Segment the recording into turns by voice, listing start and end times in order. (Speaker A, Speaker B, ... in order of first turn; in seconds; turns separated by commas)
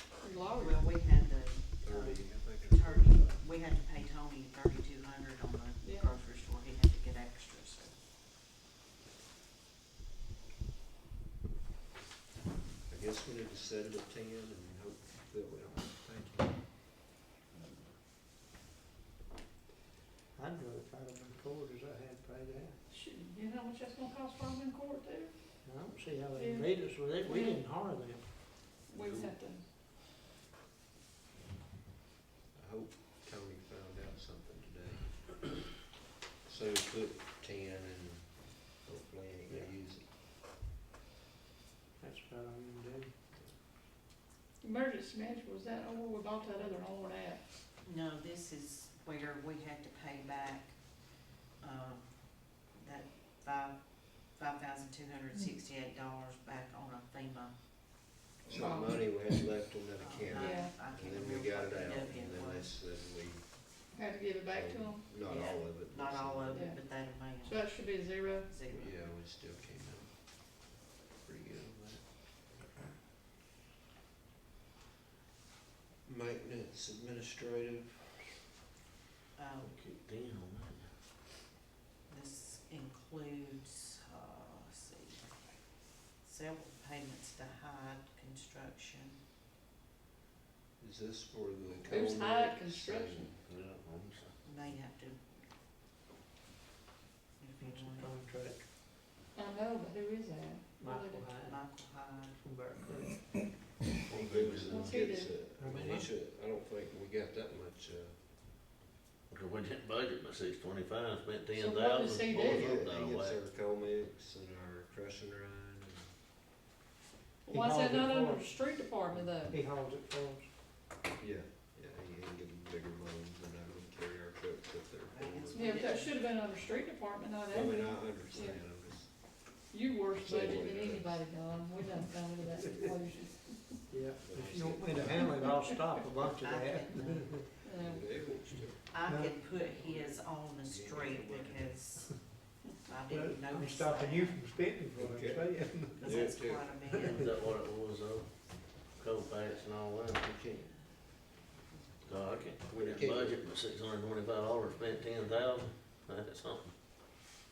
Speaker A: 0.2-0.9, Speaker B: 0.6-7.9, Speaker C: 1.8-3.4, Speaker A: 5.8-6.1, Speaker C: 12.9-16.5, Speaker D: 20.3-22.8, Speaker A: 22.9-25.6, Speaker D: 25.6-28.3, Speaker A: 26.3-27.6, Speaker A: 28.9-29.6, Speaker E: 28.9-29.3, Speaker C: 32.5-35.6, Speaker C: 36.4-38.3, Speaker C: 38.8-40.0, Speaker D: 42.0-43.1, Speaker A: 44.6-47.4, Speaker B: 47.8-50.8, Speaker B: 51.6-57.5, Speaker C: 58.5-63.5, Speaker A: 58.5-59.0, Speaker B: 60.0-62.7, Speaker A: 60.3-60.8, Speaker A: 63.9-65.0, Speaker C: 64.5-66.6, Speaker B: 65.2-67.7, Speaker A: 66.5-68.5, Speaker B: 68.5-68.9, Speaker C: 68.7-70.1, Speaker C: 71.2-72.0, Speaker C: 76.0-78.3, Speaker B: 79.3-79.7, Speaker E: 79.6-80.9, Speaker B: 82.1-85.2, Speaker B: 86.2-89.2, Speaker C: 90.8-93.3, Speaker A: 91.8-93.3, Speaker E: 93.4-94.3, Speaker B: 94.4-95.2, Speaker B: 97.4-98.1, Speaker D: 97.6-98.6, Speaker A: 99.3-101.2, Speaker D: 100.8-101.6, Speaker B: 100.9-102.4, Speaker D: 102.3-103.7, Speaker E: 104.0-104.9, Speaker C: 104.1-108.1, Speaker A: 104.6-105.4, Speaker D: 105.6-106.1, Speaker E: 109.3-113.4, Speaker A: 111.5-112.7, Speaker C: 112.3-116.1, Speaker A: 117.5-119.5, Speaker D: 117.5-118.5, Speaker D: 119.5-120.5, Speaker C: 121.2-125.6, Speaker B: 125.1-126.2, Speaker A: 125.5-128.6, Speaker C: 127.5-129.1, Speaker A: 129.7-133.8, Speaker C: 130.2-131.2, Speaker D: 133.9-137.5, Speaker C: 134.2-135.3, Speaker A: 135.4-135.7, Speaker B: 136.2-137.3, Speaker A: 137.6-138.1, Speaker C: 137.7-138.9, Speaker B: 138.9-144.4, Speaker D: 139.0-139.4, Speaker C: 139.5-141.8, Speaker D: 143.1-146.2, Speaker C: 144.9-146.9, Speaker B: 145.9-147.3, Speaker E: 147.1-150.3, Speaker C: 150.2-150.7, Speaker E: 152.0-156.7, Speaker C: 152.7-153.4